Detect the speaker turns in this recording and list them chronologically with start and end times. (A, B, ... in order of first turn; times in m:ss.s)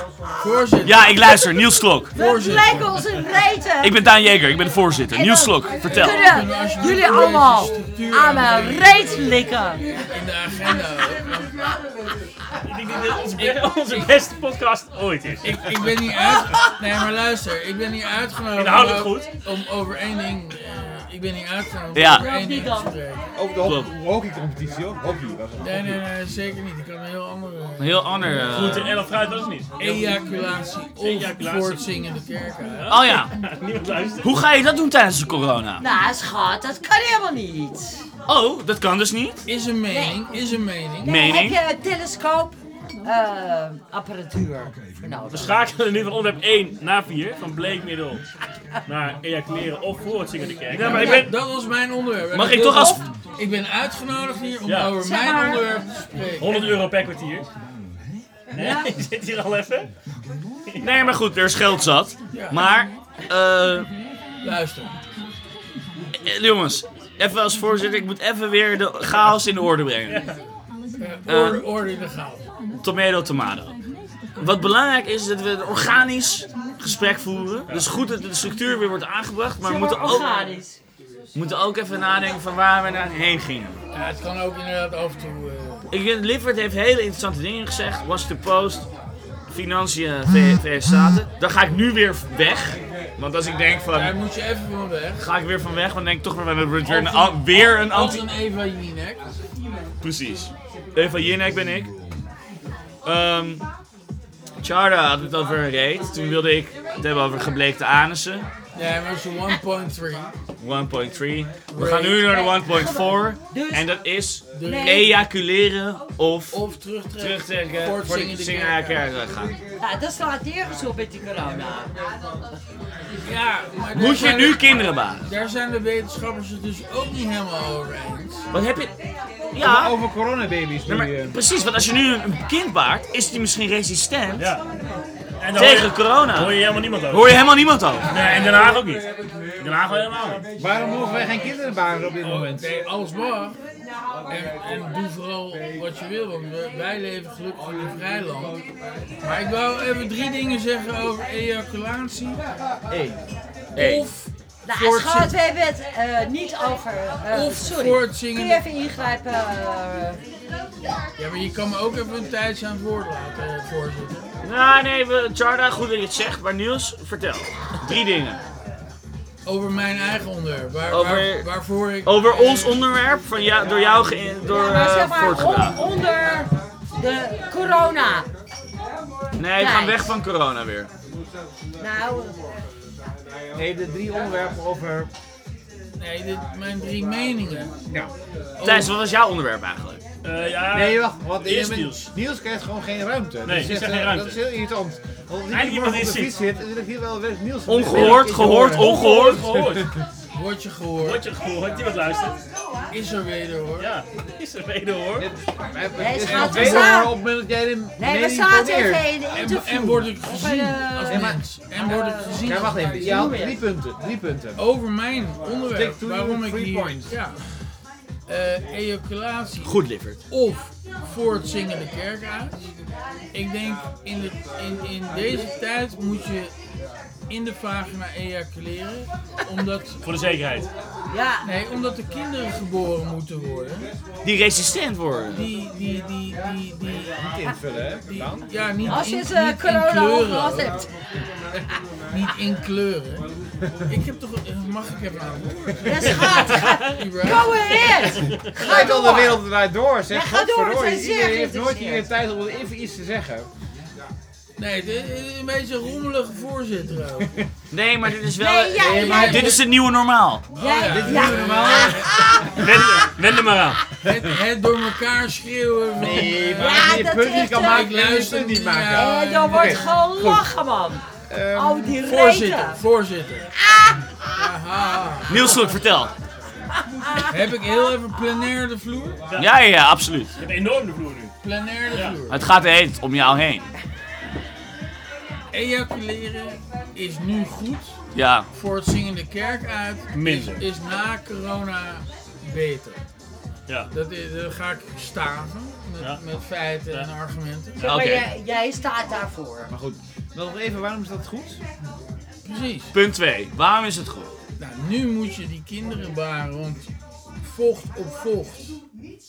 0:00.4-0:01.1 A
0:00.8-0:02.1 B
0:01.2-0:04.0 C
0:02.1-0:03.0 A
0:03.8-0:06.2 B
0:05.1-0:09.9 C
0:05.9-0:11.5 A
0:12.6-0:15.4 D
0:15.4-0:23.2 A
0:18.5-0:19.3 D
0:21.9-0:22.3 B
0:22.1-0:22.9 C
0:23.4-0:26.0 E
0:23.6-0:23.9 B
0:25.6-0:28.9 A
0:27.8-0:29.0 B
0:28.5-0:30.2 D
0:29.8-0:32.9 A
0:31.0-0:31.8 D
0:32.7-0:34.3 D
0:32.9-0:33.4 B
0:34.2-0:35.8 B
0:35.8-0:38.0 C
0:38.2-0:39.4 B
0:39.4-0:41.1 A
0:39.9-0:40.3 C
0:41.0-0:45.6 C
0:41.0-0:41.6 B
0:45.3-0:48.2 D
0:48.9-0:51.2 D
0:50.7-0:51.4 B
0:50.8-0:56.7 A
0:52.3-0:53.0 B
0:54.6-0:54.9 D
0:55.0-0:55.6 C
0:56.4-0:57.5 D
0:58.5-0:59.9 D
0:58.6-0:58.9 C
1:00.7-1:01.0 D
1:00.8-1:03.9 B
1:02.3-1:02.7 A
1:04.4-1:05.0 A
1:06.1-1:10.3 B
1:10.1-1:10.4 D
1:11.0-1:12.4 A
1:11.3-1:11.6 B
1:12.8-1:13.8 B
1:14.4-1:20.4 B
1:19.6-1:20.8 C
1:21.3-1:23.8 B
1:23.9-1:25.9 A
1:25.9-1:28.9 B
1:29.5-1:34.1 B
1:33.9-1:35.2 A
1:35.2-1:38.3 B
1:36.8-1:39.2 A
1:40.0-1:41.9 B
1:43.0-1:43.6 B
1:44.6-1:48.5 B
1:48.7-1:50.3 A
1:50.6-1:56.6 B
1:51.7-1:52.4 A
1:52.2-1:54.0 C
1:54.5-1:55.1 A
1:54.6-1:55.2 C
1:56.5-1:59.0 A
1:57.2-1:59.6 B
1:59.8-2:02.0 C
2:03.1-2:08.4 A
2:03.9-2:05.3 B
2:08.5-2:08.9 B
2:09.5-2:10.0 B
2:09.6-2:11.4 E
2:10.9-2:14.5 B
2:14.4-2:14.6 D
2:15.4-2:17.4 D
2:15.5-2:18.3 B
2:18.1-2:19.1 D
2:18.2-2:18.6 A
2:19.6-2:20.5 D
2:20.6-2:22.7 E
2:22.2-2:23.6 A
2:24.3-2:28.6 A
2:29.2-2:32.4 A
2:32.9-2:33.2 E
2:33.8-2:34.1 B
2:33.8-2:35.3 A
2:34.6-2:40.2 C
2:37.3-2:38.6 A
2:41.2-2:44.3 A
2:44.4-2:48.4 B
2:49.4-2:52.8 A
2:50.9-2:51.5 B
2:52.0-2:55.8 B
2:54.4-2:58.3 C
2:59.4-3:00.9 B
2:59.5-3:00.1 C
3:01.8-3:02.4 C
3:03.6-3:05.1 E
3:06.0-3:07.8 A
3:07.8-3:08.1 E
3:08.6-3:08.9 A
3:08.6-3:10.0 B
3:10.2-3:12.1 D
3:10.7-3:20.0 E
3:13.4-3:14.4 D
3:15.5-3:16.4 D
3:17.7-3:19.5 B
3:17.9-3:19.9 D
3:20.3-3:21.2 A
3:21.0-3:22.4 D
3:22.9-3:23.9 A
3:23.8-3:25.3 D
3:25.2-3:29.1 E
3:26.0-3:27.2 C
3:26.4-3:26.9 A
3:28.0-3:33.6 C
3:29.3-3:33.0 A
3:31.1-3:31.4 E
3:32.4-3:34.6 E
3:34.6-3:37.4 A
3:35.7-3:37.1 E
3:38.3-3:42.6 A
3:39.6-3:40.2 B
3:43.3-3:46.5 A
3:47.3-3:50.0 A
3:50.0-3:50.7 D
3:51.1-3:51.5 C
3:51.4-3:53.9 A
3:54.2-3:55.5 B
3:55.3-3:57.2 A
3:57.2-3:58.5 E
3:58.0-4:00.8 A
3:58.8-4:00.9 C
4:02.1-4:03.3 A
4:03.8-4:07.8 A
4:05.8-4:09.4 C
4:06.5-4:06.9 D
4:08.2-4:08.5 D
4:08.6-4:13.5 E
4:10.1-4:12.1 C
4:14.6-4:17.4 A
4:17.7-4:20.4 B
4:18.3-4:19.6 C
4:18.8-4:19.6 A
4:18.8-4:19.6 E
4:20.5-4:22.6 C
4:20.5-4:21.9 A
4:20.8-4:22.3 E
4:22.6-4:23.8 D
4:24.0-4:27.0 A
4:26.0-4:30.4 E
4:26.5-4:28.0 C
4:27.5-4:30.1 A
4:28.9-4:32.8 C
4:31.3-4:32.0 E
4:32.0-4:33.5 A
4:33.7-4:34.0 C
4:34.3-4:35.6 A
4:35.3-4:36.1 B
4:37.3-4:39.2 A
4:39.3-4:39.5 D
4:39.4-4:40.3 B
4:40.4-4:41.3 D
4:41.4-4:42.5 A
4:42.3-4:43.7 B
4:45.5-4:48.0 A
4:48.1-4:48.5 B
4:48.5-4:53.0 A
4:50.1-4:50.6 D
4:53.9-4:57.9 A
4:57.8-4:59.7 C
4:57.8-4:58.3 B
4:59.7-5:01.6 E
5:02.4-5:02.9 A
5:02.9-5:04.3 B
5:04.6-5:06.9 A
5:07.4-5:08.8 A